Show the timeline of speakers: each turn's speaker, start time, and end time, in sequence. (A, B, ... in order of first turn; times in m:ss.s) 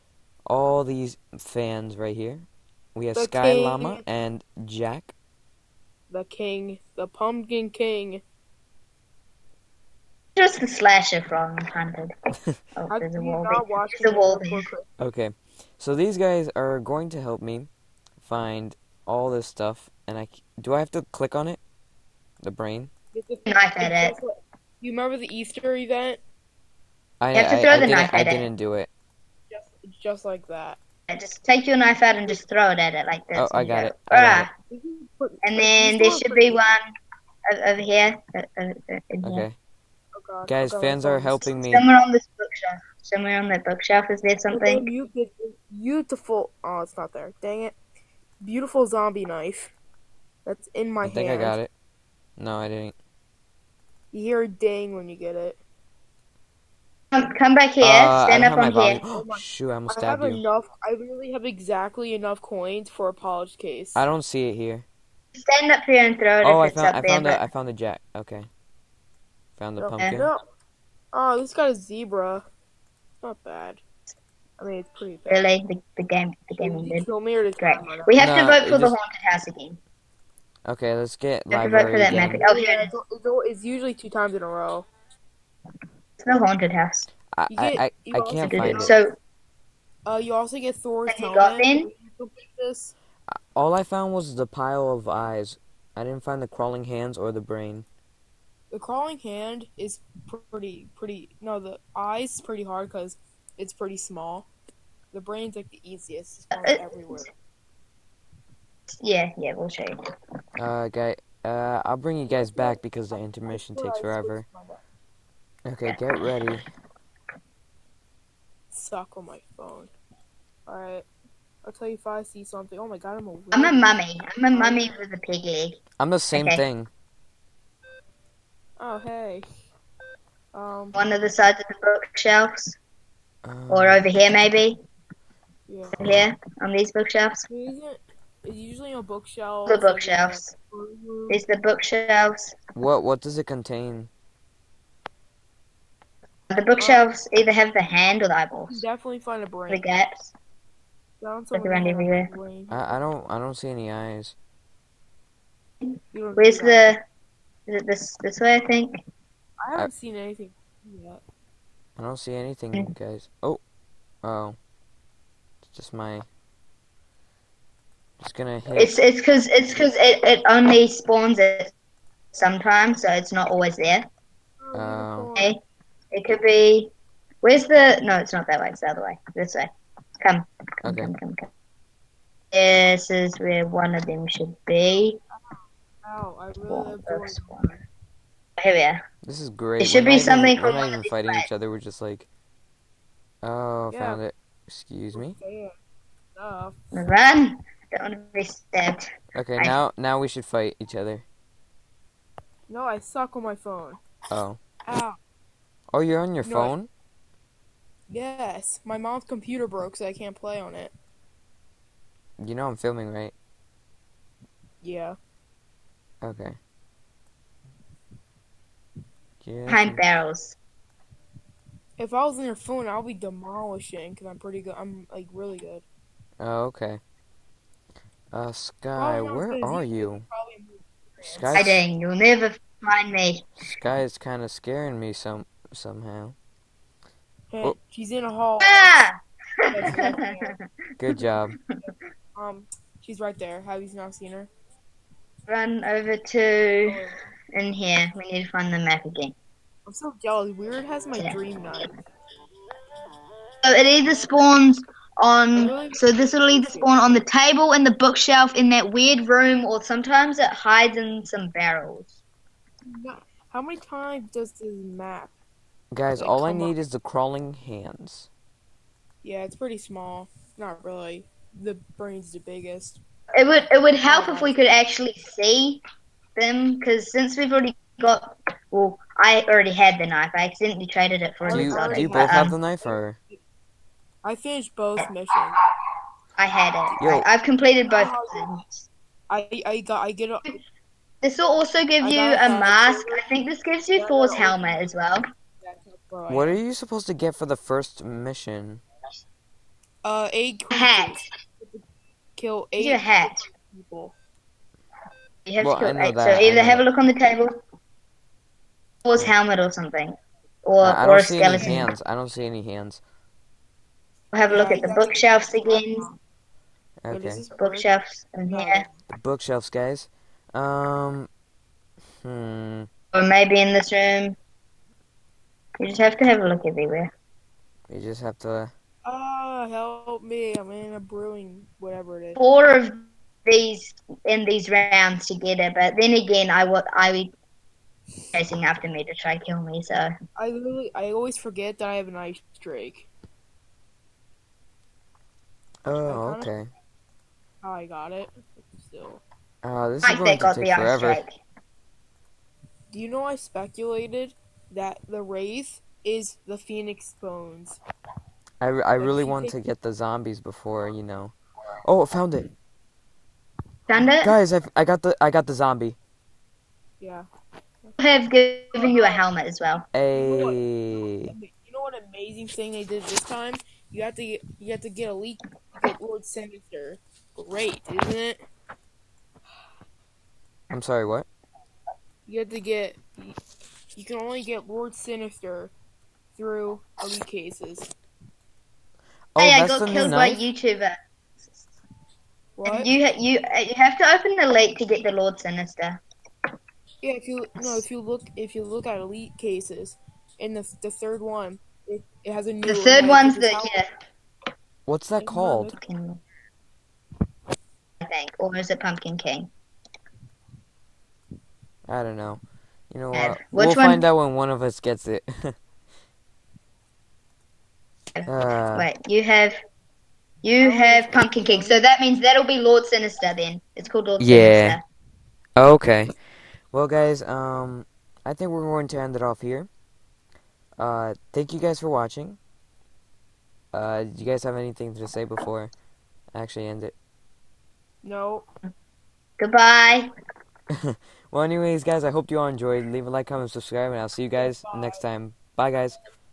0:00.5-0:05.1 A
0:03.2-0:04.0 B
0:06.1-0:08.2 B
0:10.4-0:12.1 C
0:12.8-0:14.6 C
0:12.9-0:14.9 B
0:15.0-0:21.6 A
0:22.4-0:22.9 A
0:23.1-0:26.2 B
0:23.5-0:24.2 C
0:27.2-0:28.9 A
0:27.3-0:28.5 C
0:29.5-0:30.8 B
0:31.1-0:34.5 C
0:33.4-0:34.5 A
0:34.7-0:36.7 B
0:35.4-0:36.9 C
0:37.5-0:39.4 C
0:39.2-0:39.6 A
0:40.1-0:41.6 B
0:40.5-0:41.9 A
0:41.5-0:44.9 C
0:44.5-0:47.8 B
0:48.4-0:49.7 B
0:50.4-0:51.6 B
0:51.0-0:51.7 A
0:52.4-0:53.0 A
0:54.1-0:55.6 B
0:57.1-0:59.0 C
0:57.8-1:00.4 A
0:59.1-1:04.0 B
1:04.0-1:04.9 A
1:05.4-1:07.4 C
1:06.4-1:08.5 A
1:09.6-1:10.3 A
1:09.8-1:10.4 B
1:11.1-1:12.4 B
1:13.2-1:13.8 B
1:14.6-1:15.5 B
1:15.3-1:17.1 C
1:16.6-1:18.1 B
1:17.6-1:19.8 C
1:18.2-1:19.0 A
1:20.7-1:22.4 A
1:21.5-1:22.9 C
1:22.4-1:24.9 B
1:26.2-1:27.1 C
1:27.3-1:29.0 A
1:27.5-1:29.0 B
1:28.5-1:29.2 C
1:30.1-1:32.9 B
1:31.1-1:31.9 C
1:33.3-1:37.9 A
1:38.7-1:44.5 B
1:45.1-1:47.3 B
1:46.5-1:47.2 C
1:49.0-1:50.0 C
1:50.6-1:54.4 A
1:52.3-1:54.8 B
1:55.7-1:56.6 A
1:58.7-1:59.9 B
2:00.7-2:01.1 B
2:01.6-2:04.0 B
2:03.5-2:05.8 C
2:04.5-2:04.9 B
2:06.0-2:06.9 A
2:06.3-2:06.6 C
2:08.8-2:09.4 B
2:10.5-2:11.0 B
2:10.9-2:12.8 C
2:13.4-2:14.1 A
2:13.7-2:14.8 C
2:15.7-2:16.0 B
2:16.0-2:17.5 C
2:17.5-2:21.4 B
2:19.7-2:20.5 C
2:21.3-2:22.6 C
2:22.8-2:24.1 A
2:26.5-2:28.8 C
2:26.7-2:27.1 B
2:28.7-2:29.9 B
2:29.7-2:30.3 C
2:31.2-2:33.0 B
2:31.5-2:32.3 C
2:32.7-2:34.4 A
2:36.1-2:37.0 B
2:36.4-2:37.0 C
2:37.7-2:39.0 C
2:39.6-2:41.2 B
2:42.0-2:43.6 A
2:44.2-2:44.6 A
2:45.7-2:46.3 A
2:48.2-2:49.0 A
2:48.7-2:51.7 C
2:52.4-2:54.1 C
2:54.6-2:55.5 B
2:54.7-2:55.3 A
2:55.4-2:55.6 C
2:56.1-2:59.7 C
3:00.2-3:01.5 C
3:00.8-3:01.1 A
3:02.5-3:05.2 C
3:05.3-3:07.9 B
3:06.7-3:07.7 C
3:08.6-3:09.0 C
3:09.2-3:12.3 A
3:09.8-3:11.5 C
3:13.4-3:15.4 A
3:13.9-3:14.2 B
3:15.1-3:15.7 B
3:16.4-3:16.8 B
3:16.9-3:19.8 C
3:19.4-3:21.3 A
3:22.7-3:24.0 B
3:24.3-3:24.6 A
3:24.9-3:25.2 B
3:25.9-3:26.9 A
3:26.4-3:26.8 B
3:28.1-3:30.9 B
3:32.4-3:33.3 A
3:34.8-3:35.2 B
3:36.2-3:36.6 A
3:39.4-3:40.0 A
3:39.7-3:40.6 C
3:42.0-3:45.8 B
3:46.4-3:47.0 A
3:48.3-3:50.3 A
3:49.0-3:51.6 B
3:51.2-3:51.8 A
3:51.6-3:53.5 C
3:53.6-3:56.4 A
3:57.5-3:59.0 B
3:58.6-4:01.2 C
3:59.7-4:00.6 B
4:01.0-4:01.6 A
4:02.4-4:04.5 B
4:05.5-4:07.0 C
4:06.8-4:07.2 B
4:07.6-4:09.4 C
4:09.9-4:11.9 B
4:11.2-4:11.4 C
4:13.6-4:22.2 C
4:15.6-4:17.2 B
4:22.9-4:25.3 B
4:25.9-4:28.3 A
4:26.2-4:26.8 B
4:29.2-4:33.0 B
4:33.3-4:35.8 C
4:34.0-4:34.6 B
4:36.4-4:42.6 C
4:41.4-4:43.4 B
4:41.5-4:43.2 A
4:44.2-4:45.6 B
4:46.4-4:48.7 C
4:47.0-4:47.3 A
4:47.9-4:48.6 B
4:49.3-4:50.6 B
4:51.2-4:55.2 C
4:52.0-4:53.2 B
4:54.0-4:54.9 B
4:55.6-4:56.6 B
4:56.3-4:58.8 A
5:00.0-5:01.8 B
5:00.7-5:01.3 C
5:02.4-5:04.1 B
5:02.8-5:03.4 C
5:05.5-5:07.6 C
5:05.6-5:06.8 A
5:09.0-5:11.9 C
5:10.8-5:13.0 A
5:11.5-5:11.9 B
5:14.3-5:16.1 C
5:14.5-5:16.2 B
5:17.0-5:17.4 A
5:17.1-5:19.0 B
5:17.6-5:18.8 C
5:19.1-5:21.3 A
5:22.2-5:22.9 A
5:23.1-5:24.4 C
5:25.8-5:27.1 C
5:27.9-5:28.7 A
5:29.0-5:32.4 B
5:32.4-5:37.3 C
5:38.3-5:40.1 C
5:40.4-5:43.1 B
5:45.8-5:46.7 A
5:46.0-5:46.5 B
5:47.6-5:49.2 B
5:49.6-5:51.2 A
5:50.0-5:51.4 C
5:52.9-5:57.8 B
5:58.6-6:01.3 A
5:59.0-5:59.6 B
6:01.8-6:02.5 A
6:03.9-6:04.3 C
6:04.2-6:06.0 A
6:07.0-6:07.3 B
6:08.0-6:09.8 C
6:08.7-6:09.3 B
6:09.8-6:18.4 B
6:09.9-6:11.3 A
6:20.7-6:21.3 A
6:22.3-6:23.4 B
6:24.0-6:25.7 B
6:26.4-6:27.9 B
6:29.4-6:30.4 A
6:29.4-6:31.0 C
6:32.6-6:32.9 B
6:32.6-6:36.0 C
6:37.0-6:43.8 B
6:42.6-6:43.9 C
6:44.9-6:45.7 A
6:45.2-6:45.8 B
6:45.7-6:46.2 C
6:48.0-6:49.5 C
6:51.9-6:55.5 A
6:53.1-6:54.0 C
6:58.2-6:59.6 C
6:58.3-6:58.9 A
7:00.4-7:04.8 C
7:00.6-7:01.8 B
7:04.2-7:04.8 A
7:05.6-7:06.1 A
7:06.7-7:09.7 A
7:10.8-7:12.4 A
7:13.7-7:15.7 A
7:16.3-7:16.9 A
7:18.0-7:18.5 B
7:19.4-7:20.1 C
7:20.8-7:26.0 A
7:24.4-7:25.0 B